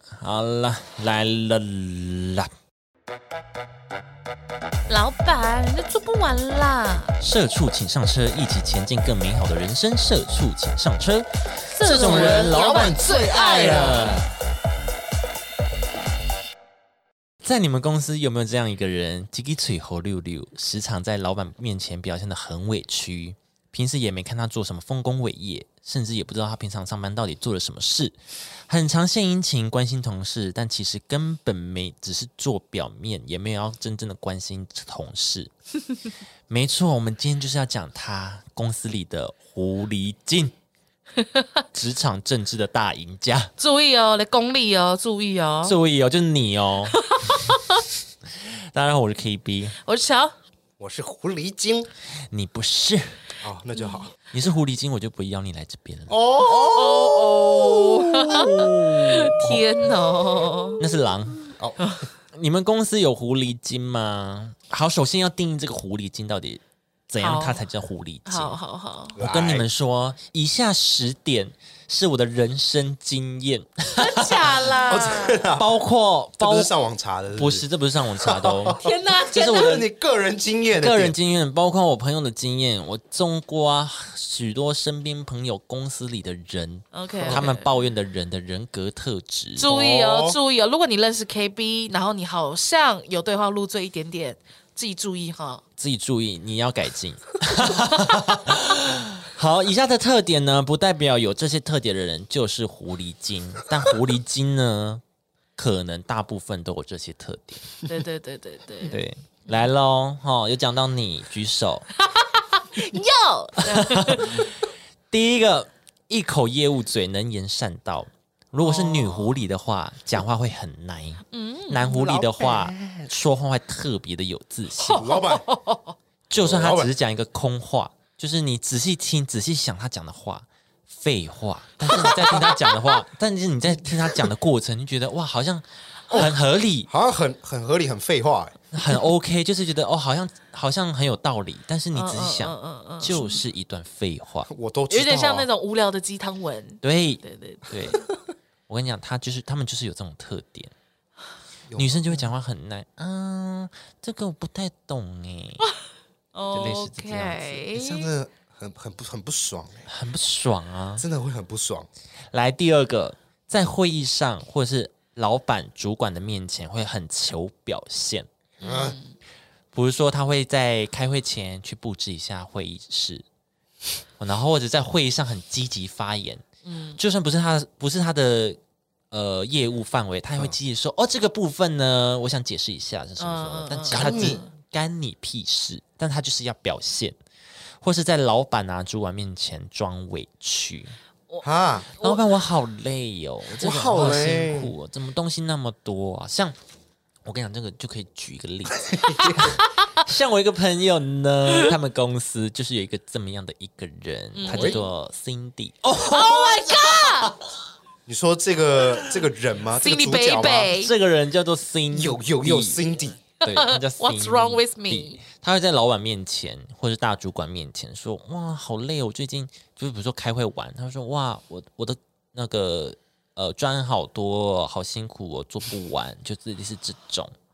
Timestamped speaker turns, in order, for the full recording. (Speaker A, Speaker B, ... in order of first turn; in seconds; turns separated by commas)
Speaker A: 0.2-2.5, Speaker B: 4.9-7.2, Speaker A: 7.2-14.3, Speaker B: 11.7-14.1, Speaker C: 11.9-14.2, Speaker A: 17.4-28.1, Speaker A: 28.7-35.5, Speaker A: 36.5-40.5, Speaker B: 41.2-41.6, Speaker A: 41.7-43.5, Speaker B: 43.6-45.8, Speaker A: 45.6-47.4, Speaker B: 46.9-47.8, Speaker A: 48.4-49.8, Speaker B: 49.8-50.4, Speaker C: 50.8-51.9, Speaker A: 52.3-53.2, Speaker C: 53.4-54.1, Speaker B: 53.8-54.0, Speaker A: 54.3-56.2, Speaker C: 56.1-58.5, Speaker B: 56.4-60.8, Speaker A: 58.1-59.6, Speaker A: 60.8-61.5, Speaker B: 61.8-62.1, Speaker A: 62.3-68.6, Speaker B: 67.2-67.6, Speaker B: 68.2-69.2, Speaker C: 69.2-69.7, Speaker A: 69.2-74.5, Speaker B: 73.9-75.4, Speaker C: 74.9-75.8, Speaker A: 75.6-76.7, Speaker C: 76.4-77.7, Speaker A: 77.3-79.9, Speaker C: 78.2-81.2, Speaker B: 78.8-79.8, Speaker A: 80.8-89.7, Speaker B: 86.9-87.7, Speaker C: 87.2-87.5, Speaker B: 89.6-95.6, Speaker C: 89.7-90.4, Speaker A: 95.8-105.0, Speaker A: 105.6-107.8, Speaker B: 107.8-109.7, Speaker A: 108.8-111.9, Speaker B: 112.0-114.5, Speaker A: 113.7-114.6, Speaker A: 115.1-125.1, Speaker B: 118.6-119.4, Speaker B: 121.3-122.2, Speaker C: 121.9-123.1, Speaker B: 124.8-126.0, Speaker C: 124.9-125.4, Speaker A: 126.3-136.9, Speaker C: 126.4-126.9, Speaker C: 132.0-132.4, Speaker B: 132.1-133.0, Speaker C: 136.1-138.6, Speaker A: 138.7-144.5, Speaker B: 141.9-143.4, Speaker C: 144.5-145.5, Speaker B: 144.9-148.1, Speaker A: 146.8-148.0, Speaker A: 148.7-150.7, Speaker C: 151.7-152.3, Speaker A: 151.8-155.7, Speaker B: 155.6-158.1, Speaker A: 156.5-157.6, Speaker C: 157.7-159.9, Speaker A: 159.9-161.1, Speaker C: 161.0-161.9, Speaker A: 162.3-168.3, Speaker B: 168.6-169.2, Speaker C: 168.6-169.0, Speaker A: 169.7-173.2, Speaker A: 174.2-176.4, Speaker B: 176.7-177.0, Speaker A: 177.0-178.6, Speaker A: 179.1-187.2, Speaker B: 183.2-184.5, Speaker C: 183.9-184.4, Speaker A: 187.8-191.0, Speaker B: 191.3-192.2, Speaker C: 191.4-191.9, Speaker A: 192.0-196.6, Speaker C: 193.5-194.7, Speaker A: 197.2-207.4, Speaker C: 198.9-199.4, Speaker B: 199.1-200.0, Speaker B: 204.3-204.9, Speaker C: 204.5-204.8, Speaker B: 206.1-207.4, Speaker C: 208.1-210.7, Speaker B: 209.8-210.9, Speaker A: 210.7-227.3, Speaker C: 211.9-213.2, Speaker B: 213.4-215.2